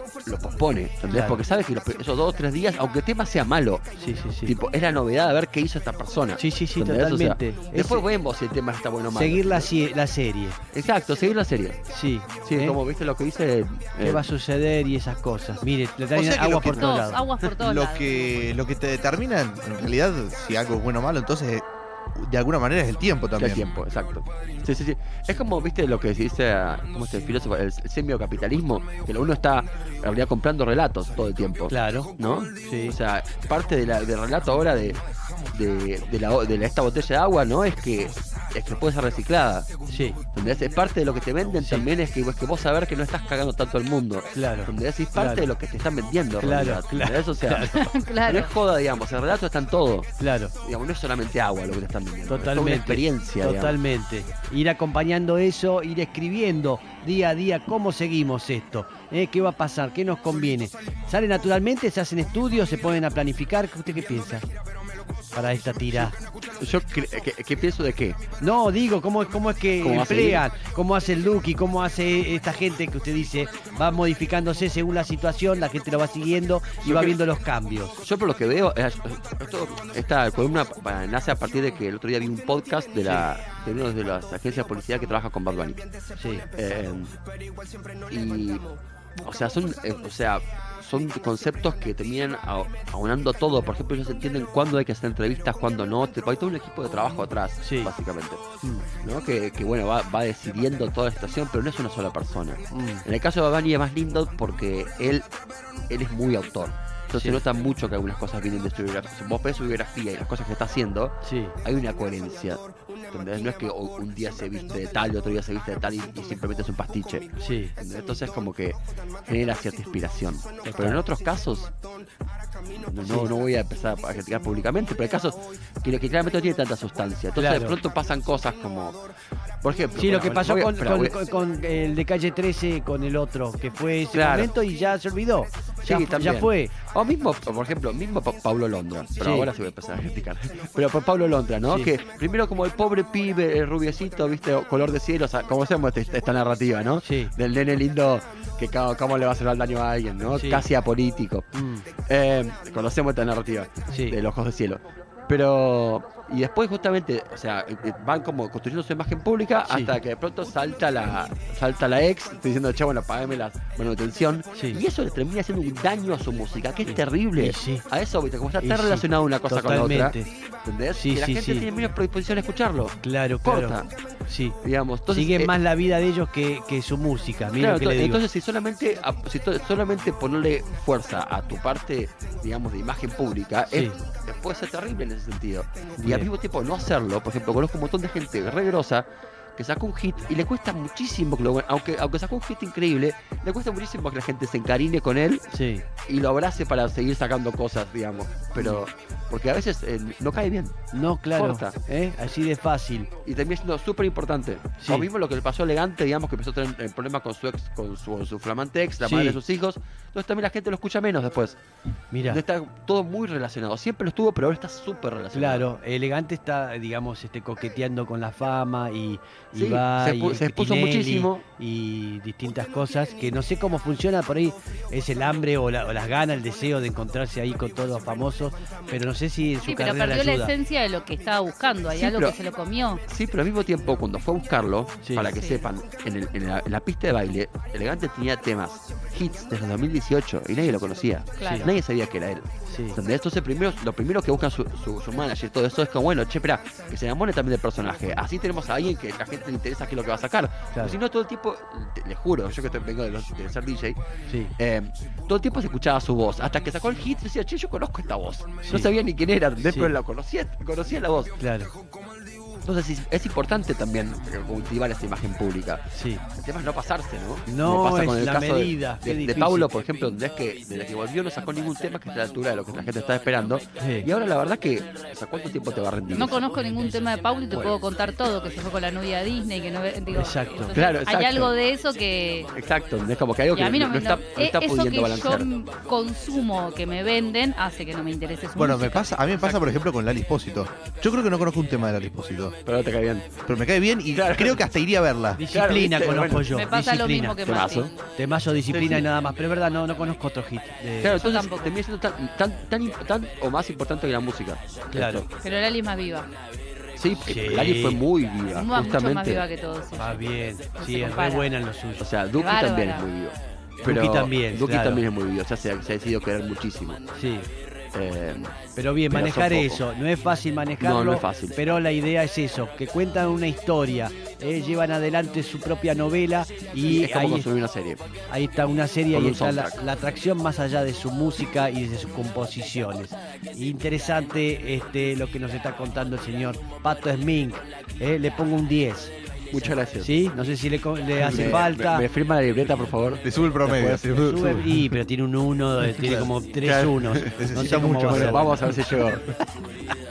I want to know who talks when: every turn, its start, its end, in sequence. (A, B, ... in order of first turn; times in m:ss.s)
0:00.2-0:03.9 A
0:01.1-0:01.4 B
0:04.0-0:04.6 B
0:04.4-0:09.7 A
0:06.4-0:08.0 B
0:09.1-0:10.6 B
0:10.7-0:11.8 A
0:11.9-0:12.8 B
0:12.4-0:14.3 A
0:14.0-0:17.2 B
0:16.1-0:23.7 C
0:16.7-0:18.3 D
0:23.4-0:35.0 A
0:31.7-0:33.0 B
0:35.5-0:39.7 A
0:39.9-0:40.2 B
0:40.3-0:50.1 A
0:41.6-0:41.8 B
0:44.3-0:45.4 B
0:46.4-0:47.9 B
0:47.7-0:48.5 D
0:50.2-0:50.5 B
0:50.6-0:53.8 A
0:52.3-1:04.4 B
1:05.3-1:06.2 B
1:05.9-1:08.2 A
1:08.4-1:18.0 B
1:09.8-1:10.4 A
1:16.8-1:17.2 A
1:18.0-1:25.8 A
1:26.2-1:26.5 B
1:26.5-1:27.1 A
1:28.1-1:28.7 A
1:29.2-1:38.4 A
1:37.6-1:37.9 B
1:38.6-1:38.9 B
1:39.0-1:45.3 A
1:42.7-1:43.0 B
1:45.9-1:52.6 A
1:47.2-1:47.4 B
1:51.2-1:51.6 B
1:53.1-2:01.7 A
1:57.4-1:57.7 B
2:00.6-2:01.0 B
2:02.8-2:09.0 A
2:03.0-2:03.3 B
2:07.4-2:07.8 B
2:09.6-2:11.2 A
2:10.0-2:16.7 B
2:14.1-2:14.5 A
2:15.8-2:31.5 A
2:19.2-2:19.5 B
2:21.6-2:21.9 B
2:27.0-2:27.3 B
2:30.3-2:30.6 B
2:31.5-2:31.9 B
2:32.1-2:53.9 A
2:33.9-2:34.2 B
2:39.7-2:39.9 B
2:44.5-2:44.8 B
2:46.8-2:47.8 B
2:48.6-2:50.3 B
2:50.9-2:51.7 B
2:53.0-2:54.6 B
2:54.6-2:55.5 A
2:55.1-2:58.2 B
2:57.6-3:15.4 A
3:03.7-3:04.0 B
3:06.0-3:06.3 B
3:15.5-3:15.8 B
3:16.1-3:20.8 A
3:18.6-3:18.8 B
3:20.9-3:23.1 B
3:21.3-3:21.8 A
3:23.2-3:31.6 A
3:24.8-3:25.1 B
3:29.0-3:29.4 B
3:32.1-3:32.4 B
3:32.2-3:35.6 A
3:35.3-3:50.5 B
3:39.5-3:41.4 A
3:49.6-3:53.0 D
3:51.9-3:52.4 A
3:53.1-4:14.0 A
3:55.0-3:55.3 B
3:55.2-3:55.7 D
4:01.4-4:01.7 D
4:01.4-4:01.7 B
4:02.7-4:03.0 B
4:14.3-4:14.5 B
4:14.6-4:21.3 A
4:18.6-4:18.9 B
4:19.6-4:19.9 B
4:21.4-4:21.7 B
4:22.6-4:36.4 A
4:25.9-4:26.2 B
4:27.5-4:29.7 B
4:33.8-4:34.1 B
4:36.1-4:42.5 D
4:37.5-4:37.8 A
4:40.1-4:40.8 B
4:40.7-4:41.5 A
4:42.5-4:45.5 A
4:43.5-4:49.2 D
4:48.6-4:52.5 C
4:49.4-4:49.8 A
4:52.6-4:53.3 A
4:53.4-4:55.4 C
4:54.1-4:54.7 A
4:55.3-4:57.4 B
4:55.5-4:56.5 A
4:56.4-4:57.9 D
4:57.4-4:57.9 A
4:58.1-5:01.2 B
4:58.7-4:59.0 A
5:01.0-5:05.3 A
5:01.1-5:01.8 D
5:04.9-5:05.2 B
5:05.4-5:06.3 D
5:07.0-5:09.4 A
5:07.2-5:08.0 B
5:08.5-5:11.5 D
5:10.0-5:12.1 B
5:12.0-5:17.0 A
5:12.3-5:13.1 D
5:13.8-5:15.0 B
5:17.1-5:17.5 B
5:17.9-5:18.5 A
5:18.8-5:27.5 B
5:19.1-5:19.8 A
5:20.8-5:21.6 A
5:26.8-5:28.0 A
5:28.3-5:39.1 B
5:29.1-5:29.8 A
5:39.5-5:40.1 A
5:40.0-5:42.1 B
5:41.2-5:41.5 C
5:41.2-5:43.2 A
5:43.2-5:44.9 C
5:43.6-5:49.0 B
5:45.9-5:46.3 C
5:46.6-5:49.3 A
5:47.3-5:48.6 C